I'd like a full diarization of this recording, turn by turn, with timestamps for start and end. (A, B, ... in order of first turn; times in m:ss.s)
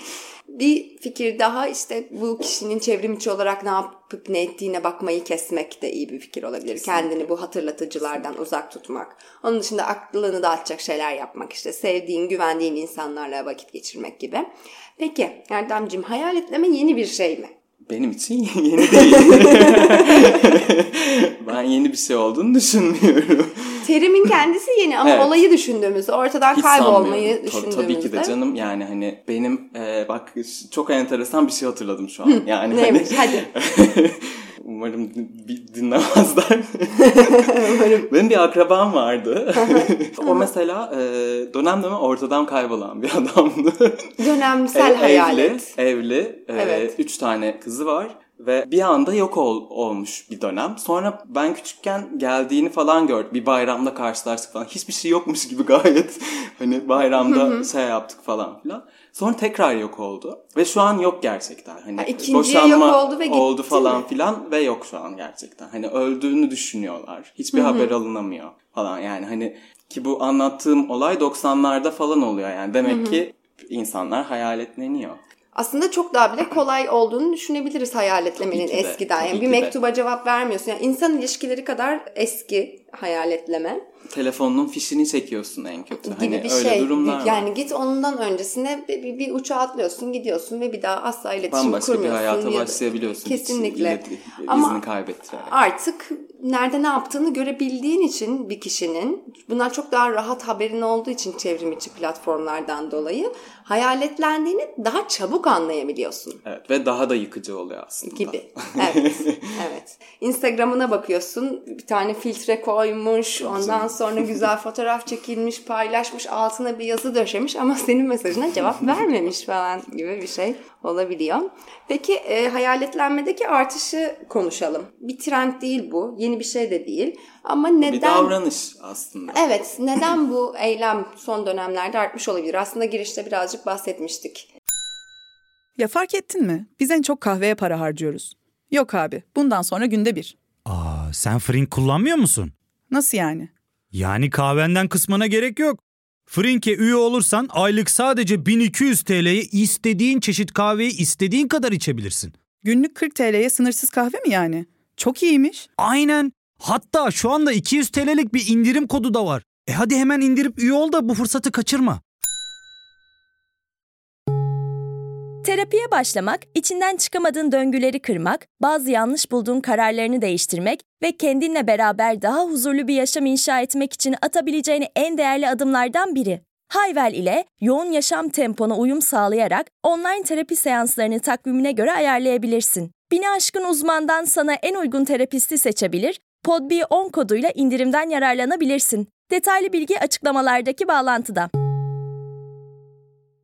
0:00.5-0:14.5 A
0:06.7-0:07.3 B
0:15.0-0:17.5 A
0:17.9-0:23.8 B
0:18.9-0:20.5 A
0:23.8-0:28.4 A
0:25.0-0:25.3 B
0:26.5-0:44.2 B
0:32.3-0:33.5 A
0:37.0-0:38.1 A
0:39.6-0:40.5 A
0:44.2-0:45.8 A
0:44.7-1:15.2 B
0:46.6-0:46.9 A
0:57.2-0:57.7 A
1:02.0-1:04.0 A
1:07.5-1:07.9 A
1:12.8-1:13.2 A
1:15.5-1:23.8 A
1:18.4-1:19.8 B
1:24.1-1:27.5 B
1:26.0-1:34.8 A
1:31.5-1:35.6 B
1:35.4-1:46.4 A
1:46.4-1:49.5 B
1:48.1-2:08.4 A
1:53.4-1:54.5 B
2:07.8-2:09.4 B
2:09.3-2:14.5 A
2:15.8-2:20.4 C
2:20.7-2:22.6 D
2:22.9-2:23.5 C
2:23.9-2:32.4 D
2:32.6-2:35.7 C
2:35.8-2:42.0 D
2:45.4-3:11.5 E